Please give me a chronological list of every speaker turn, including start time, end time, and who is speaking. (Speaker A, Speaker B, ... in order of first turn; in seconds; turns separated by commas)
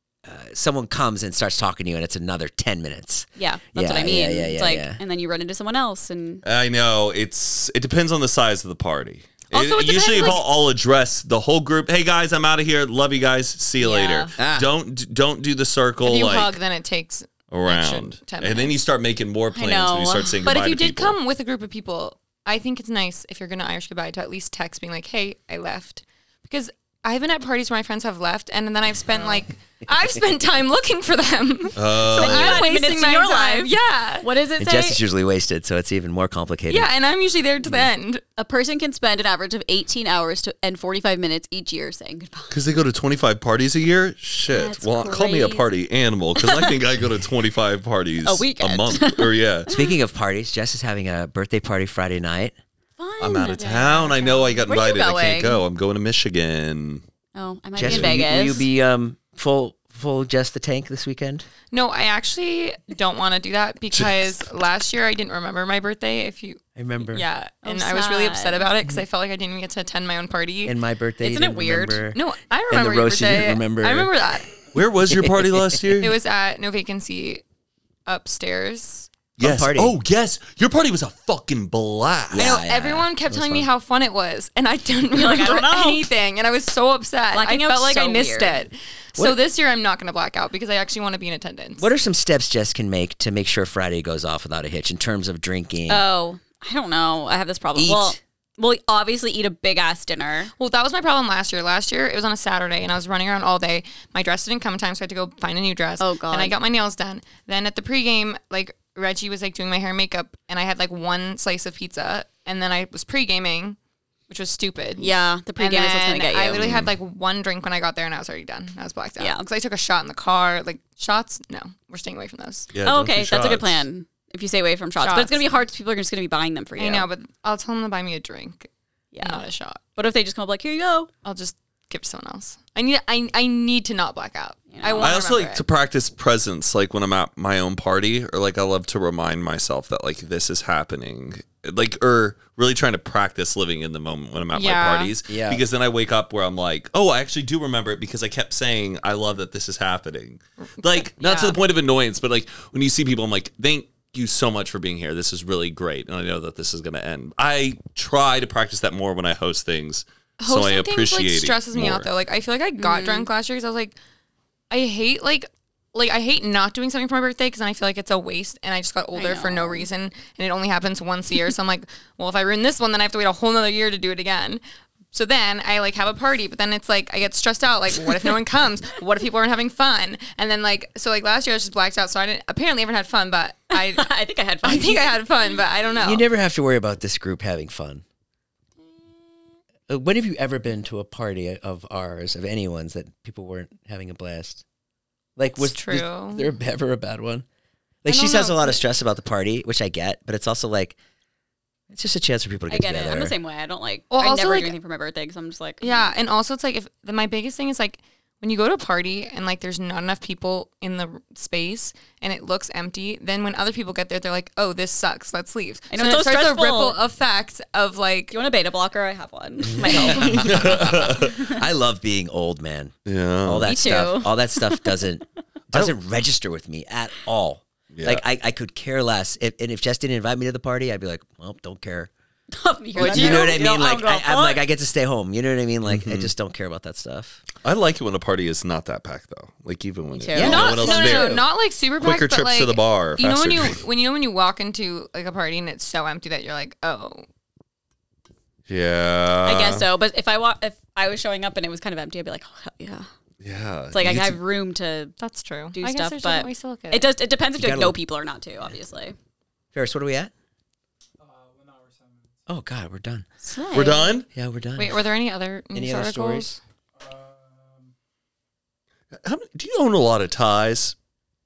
Speaker A: 0.2-5.0, Speaker B: 3.4-6.4, Speaker C: 6.4-16.6, Speaker D: 9.5-10.4, Speaker B: 13.8-14.3, Speaker A: 14.4-14.7, Speaker D: 16.0-18.8, Speaker C: 17.5-21.2, Speaker B: 19.5-20.4, Speaker D: 20.4-34.3, Speaker C: 31.8-32.6, Speaker B: 32.1-35.0, Speaker A: 34.6-36.9, Speaker D: 36.7-38.2, Speaker B: 38.4-42.6, Speaker C: 42.5-49.7, Speaker B: 44.5-45.7, Speaker B: 46.4-46.8, Speaker B: 48.2-49.9, Speaker A: 49.7-52.5, Speaker B: 53.0-53.6, Speaker C: 53.2-57.0, Speaker D: 53.5-54.6, Speaker B: 54.6-55.6, Speaker B: 57.3-58.6, Speaker A: 57.8-61.5, Speaker C: 57.8-58.2, Speaker D: 61.7-70.8, Speaker C: 63.9-64.4, Speaker A: 66.8-67.2, Speaker B: 67.6-68.7, Speaker A: 70.6-74.1, Speaker B: 71.2-72.0, Speaker D: 72.1-74.5, Speaker C: 74.7-76.2, Speaker A: 75.1-75.8, Speaker D: 76.0-77.4, Speaker D: 78.0-79.1, Speaker C: 79.4-82.5, Speaker A: 79.4-80.0, Speaker A: 82.3-83.7, Speaker D: 82.3-91.9, Speaker B: 85.1-86.1, Speaker B: 87.3-88.6, Speaker A: 91.8-96.0, Speaker B: 95.9-100.5, Speaker A: 97.8-98.2, Speaker D: 100.6-113.8, Speaker B: 106.0-106.5, Speaker D: 114.3-122.7, Speaker B: 115.0-116.8, Speaker C: 116.5-116.9, Speaker B: 119.2-119.5, Speaker C: 122.7-123.8, Speaker B: 122.8-127.1, Speaker D: 125.0-125.5, Speaker D: 126.8-129.8, Speaker B: 129.1-131.1, Speaker D: 131.2-135.7, Speaker B: 134.7-135.2, Speaker C: 135.0-162.1, Speaker D: 144.5-145.2, Speaker A: 145.3-145.6, Speaker D: 150.8-151.6, Speaker D: 160.4-163.9, Speaker B: 162.8-163.3, Speaker D: 164.7-184.1, Speaker B: 169.1-169.9, Speaker B: 183.7-185.2, Speaker D: 184.6-186.2, Speaker A: 186.0-188.0, Speaker A: 189.9-194.6, Speaker A: 195.4-197.4, Speaker D: 195.6-196.5, Speaker A: 198.0-201.0, Speaker D: 198.1-198.8, Speaker A: 201.9-203.3, Speaker B: 202.7-206.1, Speaker D: 204.1-204.7, Speaker D: 205.8-218.3, Speaker B: 215.9-217.0, Speaker B: 218.3-221.4, Speaker A: 219.8-232.1, Speaker C: 220.4-221.3, Speaker C: 223.1-223.7, Speaker B: 223.6-225.0, Speaker C: 227.9-228.2, Speaker B: 232.5-234.6, Speaker A: 232.9-237.4, Speaker D: 233.0-233.6, Speaker C: 233.1-233.6, Speaker C: 235.8-236.3, Speaker C: 237.6-241.5, Speaker B: 240.1-241.4, Speaker A: 240.3-240.7, Speaker D: 240.3-247.2, Speaker C: 242.0-243.8, Speaker C: 248.7-249.8, Speaker B: 249.4-253.1, Speaker C: 253.4-254.4, Speaker B: 253.9-255.1, Speaker D: 255.2-257.1, Speaker B: 255.7-259.1, Speaker A: 257.6-258.0, Speaker A: 259.7-260.3, Speaker A: 262.5-263.3, Speaker B: 263.4-264.1, Speaker C: 263.7-264.3, Speaker A: 264.3-265.0, Speaker D: 264.8-266.6, Speaker A: 265.7-266.6, Speaker C: 269.2-270.9